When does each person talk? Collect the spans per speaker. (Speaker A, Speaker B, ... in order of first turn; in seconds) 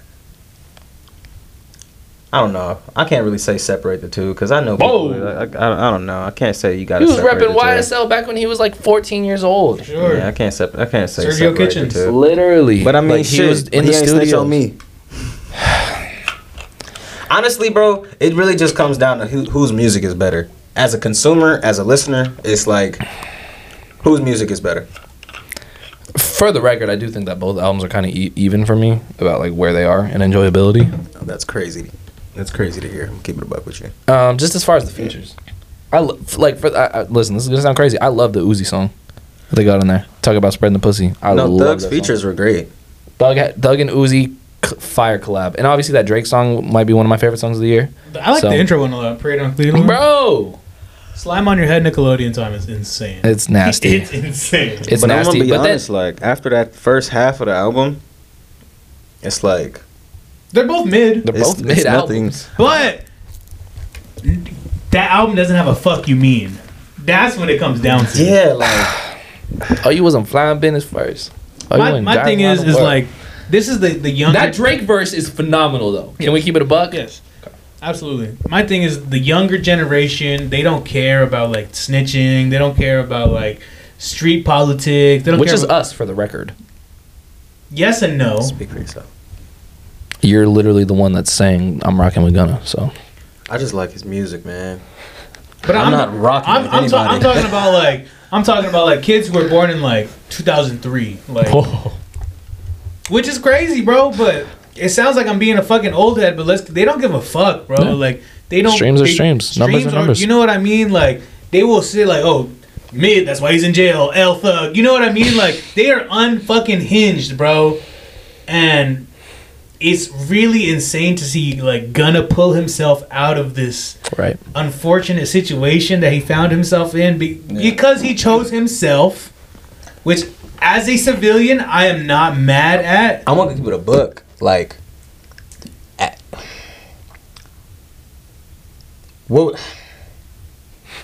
Speaker A: 2.3-7.9, 10.0-12.2, 12.8-14.8, 17.3-23.0, 24.0-24.9, 31.2-33.9, 41.3-42.7, 54.9-58.0, 59.2-59.8, 61.3-62.4, 68.1-68.9, 88.4-89.1, 93.5-94.8, 95.7-97.7, 127.5-127.8, 133.3-134.8, 136.0-136.3, 139.3-139.6
Speaker B: 4.8-5.3, 9.8-10.3, 11.2-12.1, 48.1-50.0, 51.1-54.9, 60.5-61.3, 62.6-63.0, 64.2-68.4, 71.7-74.6, 76.2-77.2, 77.8-85.7, 87.7-88.6, 95.6-101.6, 103.1-117.8, 118.5-119.1, 119.8-124.0, 124.5-129.3, 130.0-133.2
Speaker C: 7.0-9.9, 12.0-14.6, 26.1-30.9, 34.1-35.3, 35.9-38.9, 39.5-42.1, 43.2-48.7, 49.7-50.6, 53.2-54.1, 54.9-55.8, 61.2-62.7, 69.8-73.0, 74.3-77.0, 85.3-86.5, 90.2-92.9, 101.5-102.0, 108.7-110.3, 124.1-124.4